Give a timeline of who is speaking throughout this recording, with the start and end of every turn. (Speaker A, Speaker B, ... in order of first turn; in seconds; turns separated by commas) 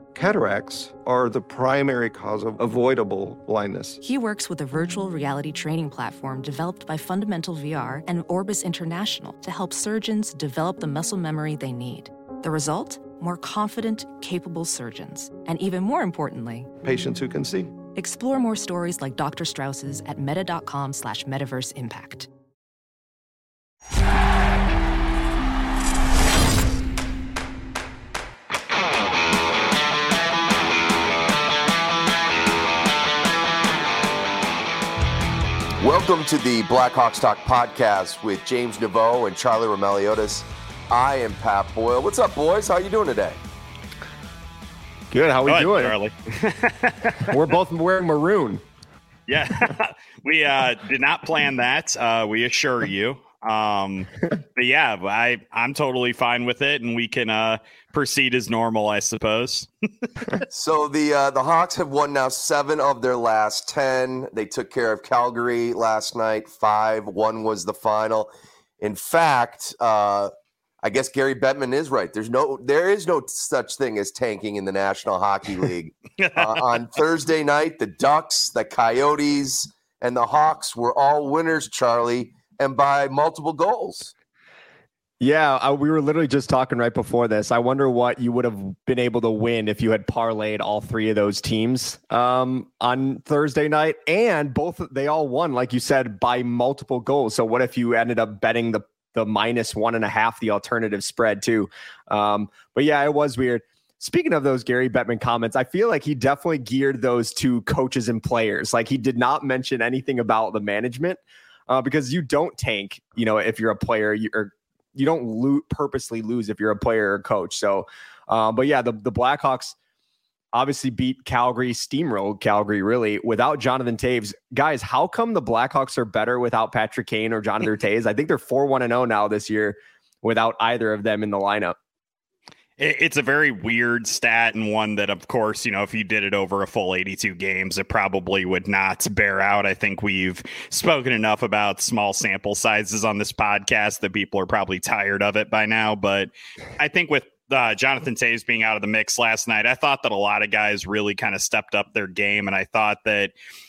Speaker A: 0.1-4.0, Speaker B: 4.0-16.7, Speaker A: 16.8-17.7, Speaker B: 17.9-22.3, Speaker C: 35.8-43.4, Speaker D: 45.1-46.0, Speaker E: 45.5-47.4, Speaker D: 47.3-48.6, Speaker E: 49.3-60.3, Speaker C: 60.5-70.3, Speaker C: 70.8-84.1, Speaker E: 76.2-76.6, Speaker D: 85.2-119.8, Speaker D: 120.5-131.8, Speaker E: 132.8-153.3